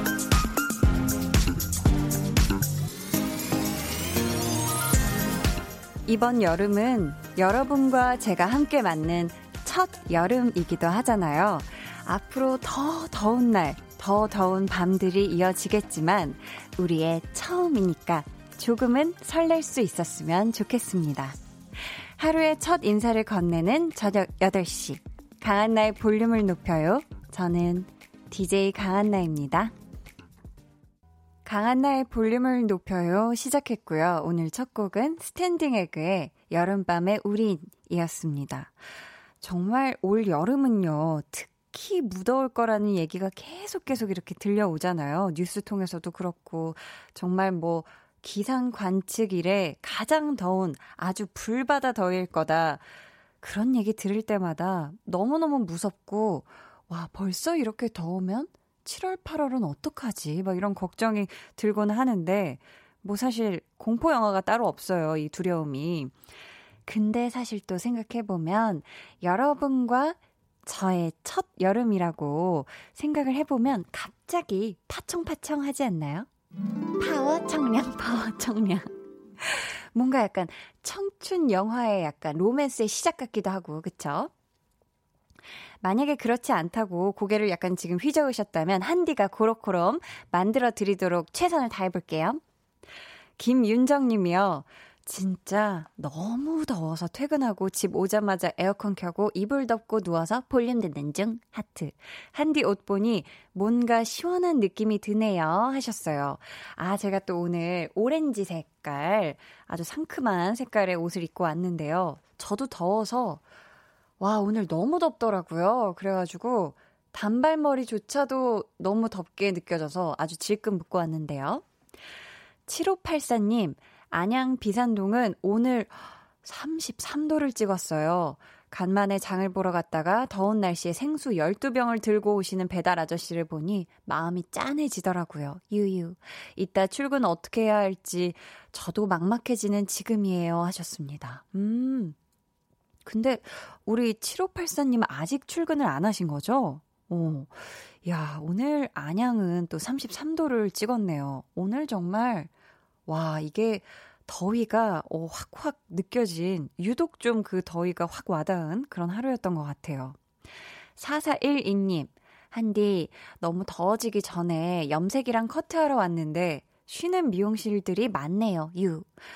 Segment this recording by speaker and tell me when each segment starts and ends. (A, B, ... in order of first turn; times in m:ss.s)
0:06.0-0:21.4 A
0:22.2-0:29.7 A
0:31.4-0:38.7 A
0:39.4-0:52.8 A
0:53.4-1:06.1 A
1:06.8-1:16.3 A
1:17.0-1:24.3 A
1:25.8-1:32.4 A
1:33.4-1:53.4 A
1:54.2-2:01.6 A
2:02.7-2:22.2 A
2:23.0-2:32.5 A
2:33.1-2:40.2 A
2:41.0-2:49.1 A